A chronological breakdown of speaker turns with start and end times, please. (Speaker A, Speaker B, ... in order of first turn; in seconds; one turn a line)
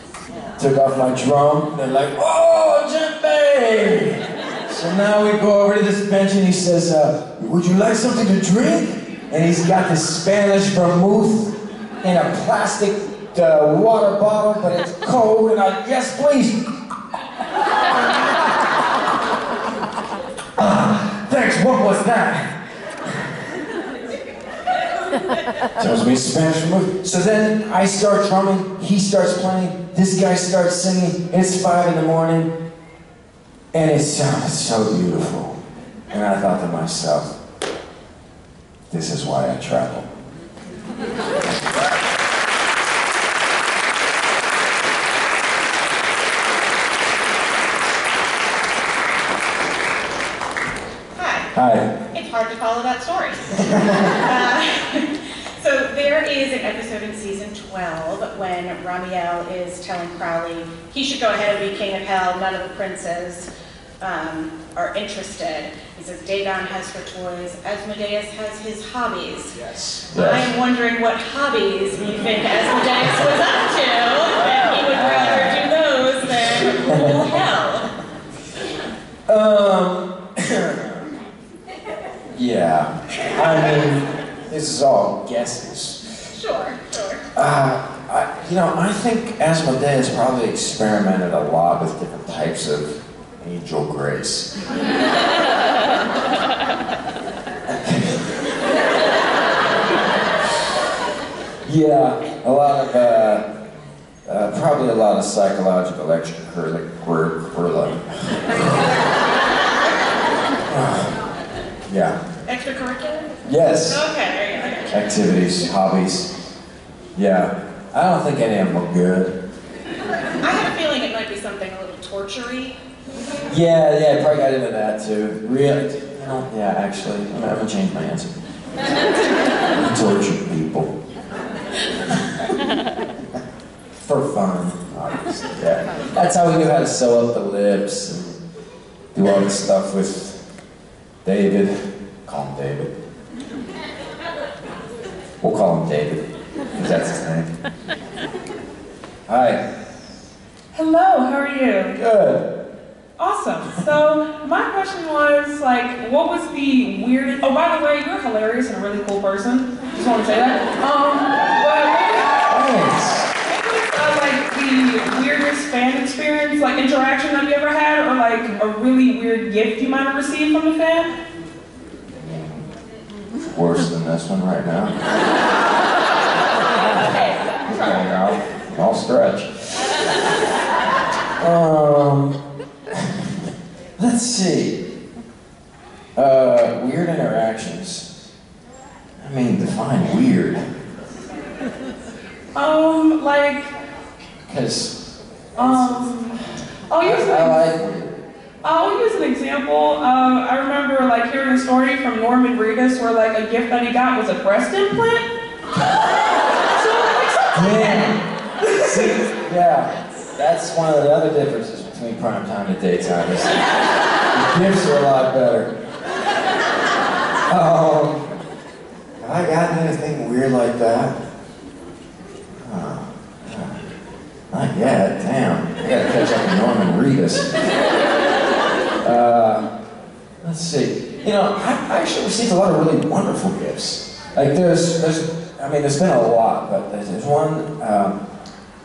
Speaker A: 0.6-16.6
Speaker A: 20.6-22.5
Speaker A: 25.8-32.5
Speaker A: 33.7-35.6
Speaker A: 36.1-37.4
Speaker A: 38.9-40.1
Speaker B: 51.1-51.5
Speaker A: 51.5-51.9
Speaker B: 52.1-53.5
Speaker B: 54.2-63.5
Speaker B: 64.0-69.5
Speaker A: 69.5-70.5
Speaker B: 70.1-77.9
Speaker A: 74.9-75.8
Speaker A: 76.5-77.3
Speaker A: 79.3-81.1
Speaker A: 82.3-86.3
Speaker B: 86.3-87.2
Speaker A: 87.3-94.5
Speaker A: 97.7-98.3
Speaker A: 101.7-103.5
Speaker A: 104.2-108.9
Speaker A: 110.7-111.2
Speaker A: 111.9-112.2
Speaker B: 112.5-113.3
Speaker A: 113.4-114.0
Speaker B: 113.8-114.9
Speaker A: 114.9-116.3
Speaker A: 117.1-119.3
Speaker B: 120.4-122.8
Speaker A: 123.5-128.3
Speaker A: 129.7-130.9
Speaker A: 134.0-138.4
Speaker A: 139.1-140.4
Speaker A: 141.2-142.9
Speaker A: 145.4-147.5
Speaker A: 149.3-149.6
Speaker C: 150.7-152.0
Speaker A: 151.9-152.5
Speaker C: 153.2-162.8
Speaker A: 162.5-163.3
Speaker C: 163.4-171.1
Speaker A: 172.2-172.6
Speaker A: 173.4-175.0
Speaker B: 177.1-177.5
Speaker A: 177.6-180.0
Speaker A: 181.4-182.4
Speaker A: 184.0-184.8
Speaker A: 186.2-188.1
Speaker A: 189.2-190.6
Speaker C: 192.5-193.7
Speaker A: 194.5-194.9
Speaker A: 195.6-196.1
Speaker C: 195.6-197.7
Speaker A: 197.0-198.2
Speaker C: 198.6-205.3
Speaker C: 206.7-209.1
Speaker A: 207.5-213.6
Speaker A: 214.3-215.7
Speaker A: 217.5-218.3
Speaker A: 219.2-221.2
Speaker A: 222.6-223.8
Speaker A: 224.5-227.6
Speaker A: 229.0-229.7
Speaker A: 230.4-238.2